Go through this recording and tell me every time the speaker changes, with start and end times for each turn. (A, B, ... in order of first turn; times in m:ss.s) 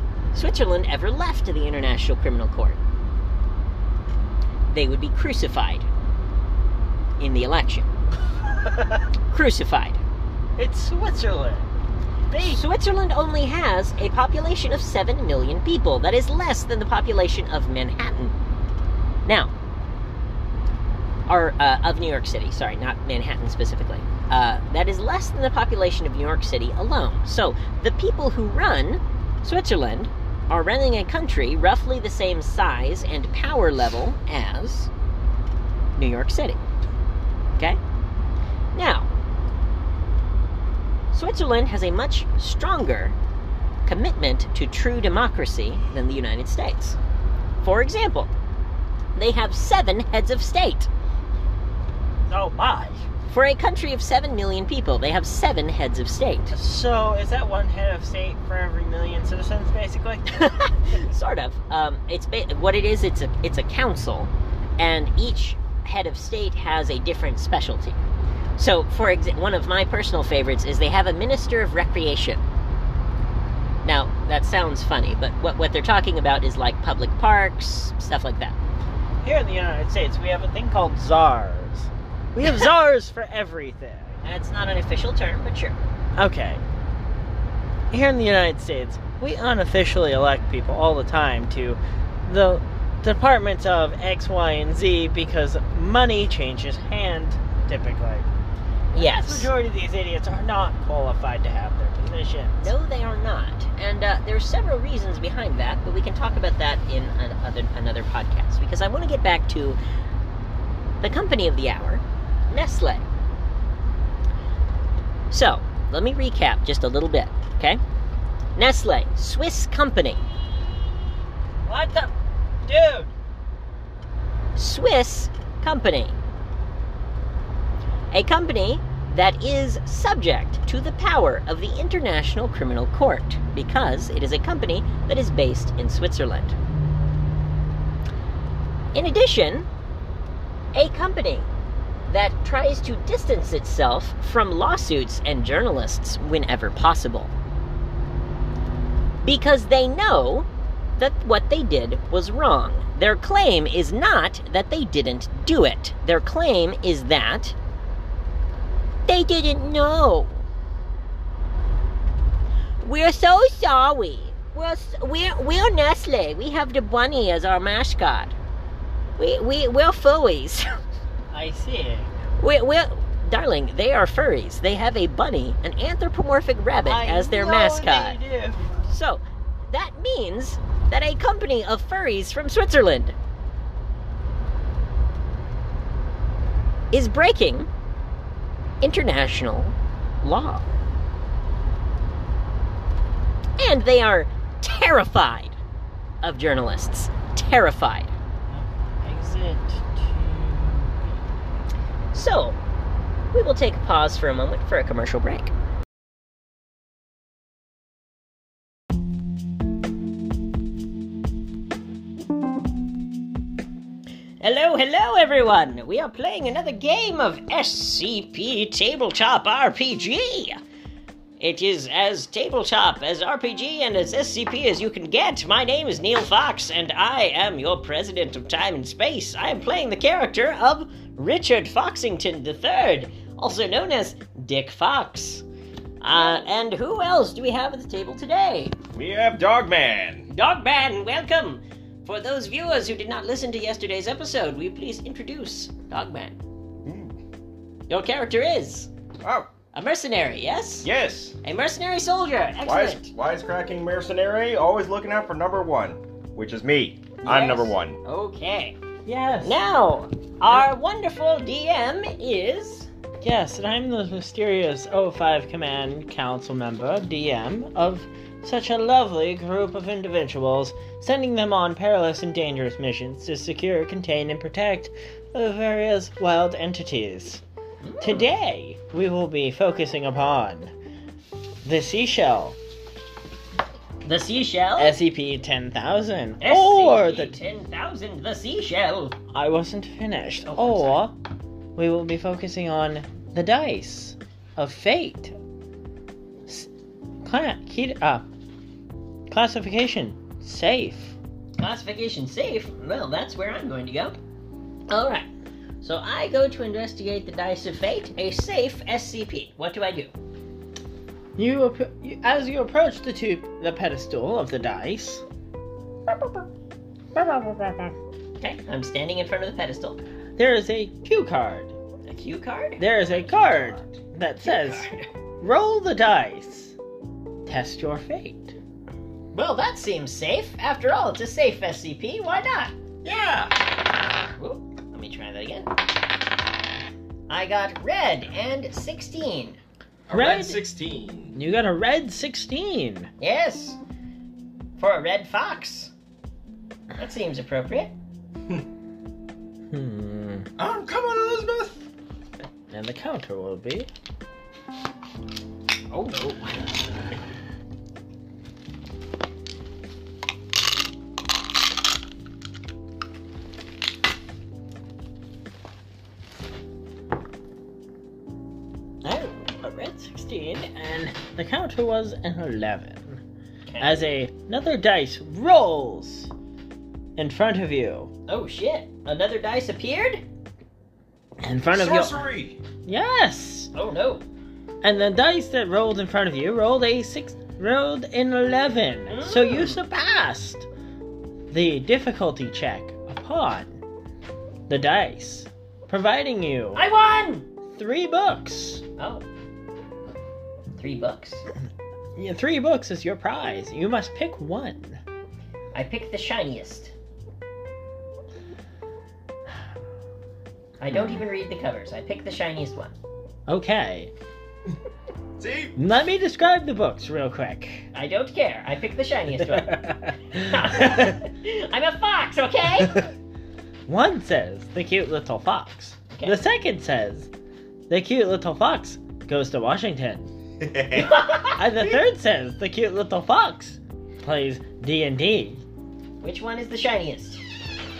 0:00.3-0:02.8 A
0:04.7-0:05.9 A
0:07.2-0:07.9 A
0:08.6-0:09.0 B
0:09.3-0:10.0 A
0:10.6-0:11.7 B
0:12.3-0:12.6 B
0:12.5-0:18.4 A
0:19.2-0:19.5 A
0:21.3-0:34.9 A
0:36.0-0:36.6 A
0:38.7-0:39.1 A
0:41.1-0:43.2 A
0:43.9-0:47.0 A
0:47.6-0:48.3 A
0:49.2-0:50.9 A
0:52.3-0:53.0 B
0:53.3-0:56.5 A
0:56.5-1:00.5 B
1:00.4-1:08.0 A
1:08.6-1:12.4 A
1:13.8-1:18.6 A
1:19.2-1:24.2 B
1:24.2-1:25.8 A
1:26.2-1:26.6 B
1:27.9-1:38.3 B
1:38.9-1:39.5 A
1:38.9-1:42.7 B
1:42.6-1:49.8 A
1:51.0-1:53.1 A
1:55.3-1:57.8 A
1:58.6-2:00.2 A
2:01.6-2:02.1 B
2:02.6-2:03.1 B
2:04.6-2:06.2 A
2:08.1-2:16.6 A
2:18.9-2:19.7 A
2:20.7-2:21.5 A
2:22.1-2:27.3 A
2:29.2-2:37.6 A
2:39.1-2:40.4 A
2:42.8-2:48.4 A
2:49.2-2:50.7 A
2:51.3-2:52.2 B
2:52.4-2:58.2 A
2:56.8-2:58.9 B
2:58.9-3:03.2 A
3:06.9-3:07.7 A
3:08.8-3:10.7 A
3:13.6-3:15.6 A
3:16.2-3:18.1 A
3:18.5-3:21.2 B
3:22.1-3:22.6 A
3:23.3-3:25.5 A
3:34.4-3:40.6 A
3:41.4-3:55.4 A
3:56.0-3:58.8 A
3:58.9-4:00.3 C
4:00.3-4:06.4 A
4:06.8-4:07.2 C
4:07.9-4:08.9 A
4:09.2-4:09.5 C
4:09.7-4:10.9 A
4:10.8-4:11.4 C
4:11.4-4:13.1 A
4:12.6-4:18.0 C
4:17.2-4:18.8 A
4:19.1-4:19.6 B
4:19.4-4:22.9 A
4:23.2-4:37.4 B
4:37.8-4:38.3 A
4:38.0-4:40.7 B
4:41.6-4:42.6 B
4:44.0-4:45.0 A
4:44.8-4:47.4 B
4:46.4-4:49.2 A
4:49.3-4:51.2 B
4:50.4-4:51.1 A
4:51.8-4:55.4 B
4:57.2-4:58.3 B
4:59.3-5:01.2 B
5:01.6-5:04.2 A
5:04.9-5:05.3 A
5:05.8-5:10.1 A
5:11.4-5:15.2 B
5:17.2-5:18.0 B
5:18.4-5:20.0 A
5:20.4-5:21.8 B
5:22.1-5:23.3 A
5:22.8-5:24.9 B
5:24.4-5:25.1 A
5:25.4-5:26.8 B
5:27.5-5:28.6 B
5:29.3-5:32.8 A
5:33.0-5:33.6 C
5:34.4-5:35.7 A
5:37.3-5:39.6 A
5:40.1-5:41.4 C
5:40.1-5:40.6 B
5:41.3-5:43.1 B
5:43.2-5:43.8 A
5:44.8-5:45.9 A
5:47.0-5:47.9 A
5:49.7-5:50.5 B
5:50.6-5:51.8 C
5:52.7-5:53.9 B
5:55.9-5:56.5 A
6:09.0-6:13.2 B
6:13.7-6:14.1 A
6:13.8-6:16.3 B
6:17.2-6:18.1 B
6:18.3-6:20.2 A
6:21.4-6:22.2 B
6:21.7-6:22.6 C
6:22.9-6:23.7 B
6:23.7-6:24.2 A
6:24.8-6:30.7 B
6:29.1-6:29.8 A
6:31.5-6:33.8 B
6:34.7-6:36.8 B
6:36.8-6:37.5 A
6:37.7-6:38.8 B
6:39.0-6:39.3 A
6:40.8-6:41.4 A
6:42.2-6:45.0 B
6:45.7-6:46.9 A
6:50.8-6:53.0 A
6:53.5-6:54.1 B
6:55.4-6:55.8 C
6:55.8-6:57.9 B
6:57.9-7:03.0 A
6:59.4-7:01.2 B
7:03.9-7:07.3 B
7:06.1-7:06.4 A
7:07.9-7:10.3 B
7:10.6-7:11.2 C
7:10.9-7:11.6 A
7:11.6-7:15.6 B
7:16.2-7:17.4 A